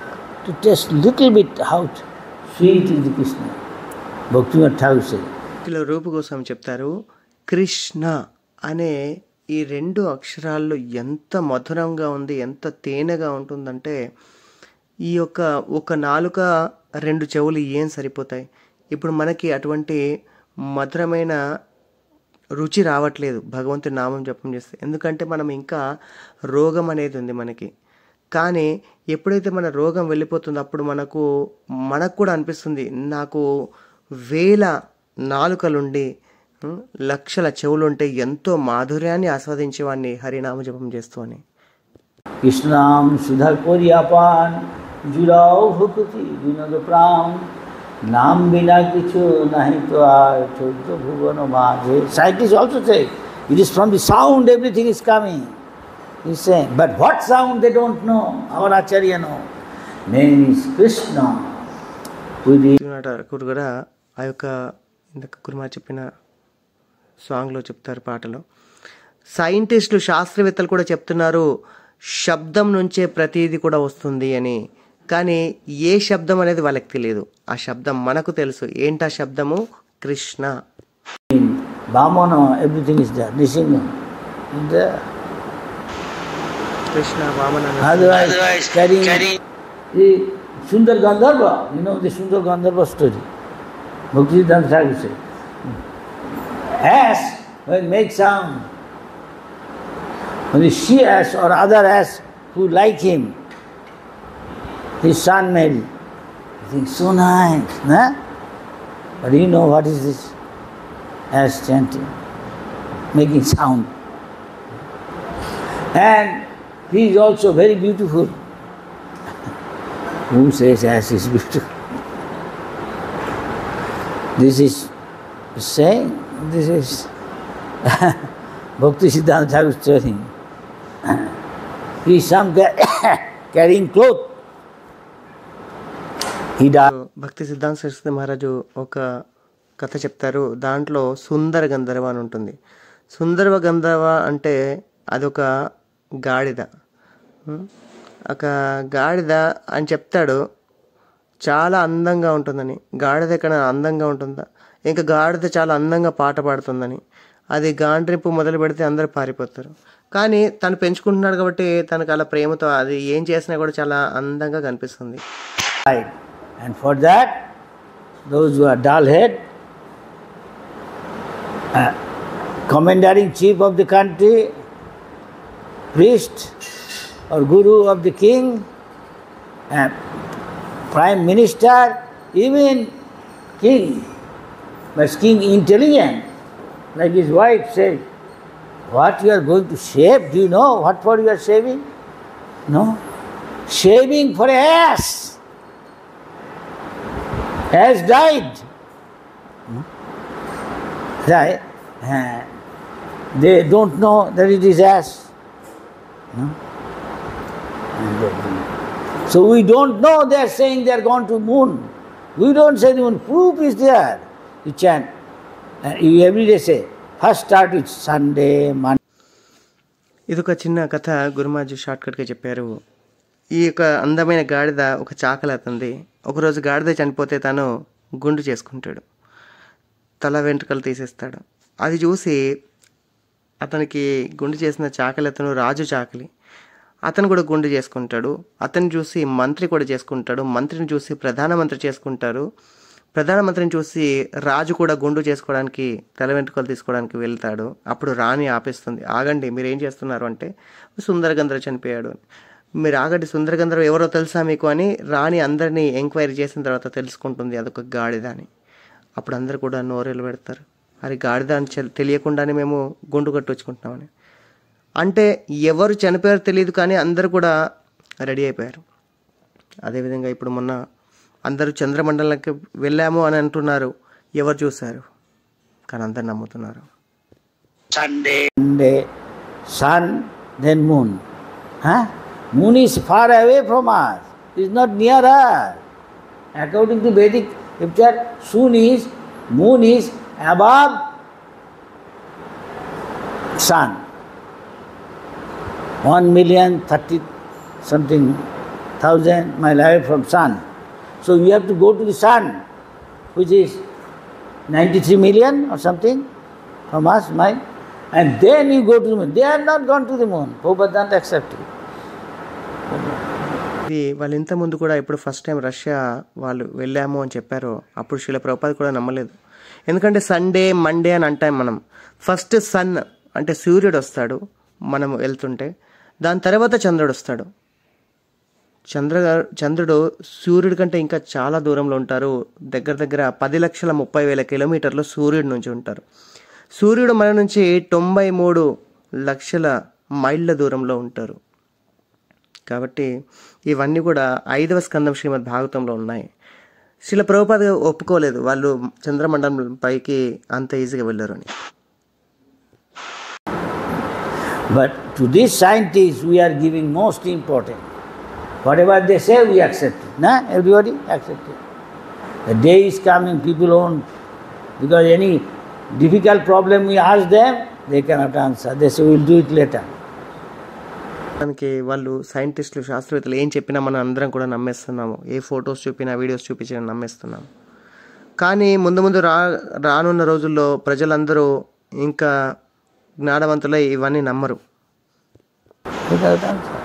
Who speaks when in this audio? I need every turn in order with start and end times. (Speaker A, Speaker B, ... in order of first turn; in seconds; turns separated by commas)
Speaker A: 0.4-3.6, Speaker A: 4.3-5.3, Speaker B: 5.7-6.9, Speaker B: 7.5-8.2, Speaker B: 8.7-8.9, Speaker B: 9.6-14.0, Speaker B: 15.1-16.5, Speaker B: 17.0-20.0, Speaker B: 20.8-21.4, Speaker B: 22.6-25.8, Speaker B: 26.5-27.7, Speaker B: 28.4-31.2, Speaker B: 31.9-33.4, Speaker B: 34.3-34.7, Speaker B: 35.3-36.1, Speaker B: 36.6-41.4, Speaker A: 42.4-47.5, Speaker A: 48.1-55.5, Speaker A: 56.2-59.4, Speaker A: 60.1-61.5, Speaker A: 62.5-62.8, Speaker B: 62.8-63.7, Speaker B: 64.2-64.5, Speaker B: 65.2-66.1, Speaker B: 67.2-68.4, Speaker B: 69.4-71.5, Speaker B: 72.2-74.6, Speaker B: 75.1-80.5, Speaker A: 81.3-83.9, Speaker A: 84.5-84.9, Speaker B: 86.9-88.4, Speaker A: 87.8-89.3, Speaker C: 88.2-89.3, Speaker A: 89.9-93.3, Speaker A: 94.1-95.2, Speaker A: 96.8-98.7, Speaker A: 100.5-103.3, Speaker A: 105.0-105.9, Speaker A: 106.7-108.2, Speaker A: 109.2-110.3, Speaker A: 111.3-112.1, Speaker A: 113.1-113.9, Speaker A: 116.0-118.3, Speaker A: 120.3-121.7, Speaker A: 124.4-124.9, Speaker A: 125.6-127.1, Speaker A: 127.9-128.2, Speaker A: 128.8-130.3, Speaker A: 132.1-134.3, Speaker A: 136.6-136.9, Speaker B: 136.9-139.0, Speaker B: 139.8-142.6, Speaker B: 143.1-144.6, Speaker B: 145.2-145.4, Speaker B: 146.3-146.7, Speaker B: 148.3-150.4, Speaker B: 151.5-157.0, Speaker B: 157.6-165.2, Speaker A: 166.6-167.3, Speaker A: 168.3-169.4, Speaker A: 172.7-174.4, Speaker A: 175.9-176.5, Speaker A: 177.3-178.6, Speaker A: 180.9-182.9, Speaker A: 183.6-184.0, Speaker A: 185.0-186.2, Speaker A: 187.0-188.0, Speaker A: 188.9-191.8, Speaker A: 192.7-193.0, Speaker A: 193.7-195.3, Speaker A: 197.7-198.6, Speaker A: 201.3-202.5, Speaker A: 203.4-205.2, Speaker A: 208.0-208.6, Speaker A: 209.3-211.8, Speaker A: 212.4-215.1, Speaker A: 215.9-219.0, Speaker B: 220.3-222.8, Speaker B: 223.6-227.7, Speaker B: 228.2-229.0, Speaker B: 230.2-232.4, Speaker B: 233.7-236.3, Speaker B: 237.1-242.4, Speaker B: 243.2-250.5, Speaker B: 251.0-252.2, Speaker B: 252.8-258.5, Speaker B: 259.2-264.1, Speaker B: 265.0-267.5, Speaker B: 268.2-268.8, Speaker B: 269.9-270.8, Speaker B: 271.5-275.1, Speaker B: 275.9-276.9, Speaker A: 277.9-278.9, Speaker C: 282.7-283.9, Speaker C: 284.8-285.2, Speaker C: 286.8-287.4, Speaker C: 289.6-290.0, Speaker C: 296.2-297.1, Speaker A: 296.6-297.0, Speaker C: 299.1-300.4, Speaker A: 299.3-300.1, Speaker C: 301.5-302.4, Speaker A: 304.8-306.1, Speaker C: 304.9-306.0, Speaker C: 307.0-307.5, Speaker A: 307.1-307.4, Speaker A: 308.3-311.3, Speaker C: 308.4-311.4, Speaker B: 313.9-319.3, Speaker B: 319.9-324.4, Speaker B: 324.9-325.7, Speaker B: 326.3-327.5, Speaker B: 328.9-336.0, Speaker B: 336.8-338.7, Speaker B: 339.3-339.7, Speaker B: 340.2-341.4, Speaker B: 342.7-343.1, Speaker B: 343.7-346.3, Speaker B: 347.1-351.5, Speaker C: 354.8-357.8, Speaker C: 358.7-361.5, Speaker C: 362.5-364.0, Speaker C: 364.8-365.4, Speaker C: 366.0-369.9, Speaker B: 371.4-377.4, Speaker B: 378.4-381.5, Speaker B: 382.0-382.3, Speaker B: 383.3-384.6, Speaker C: 386.1-386.7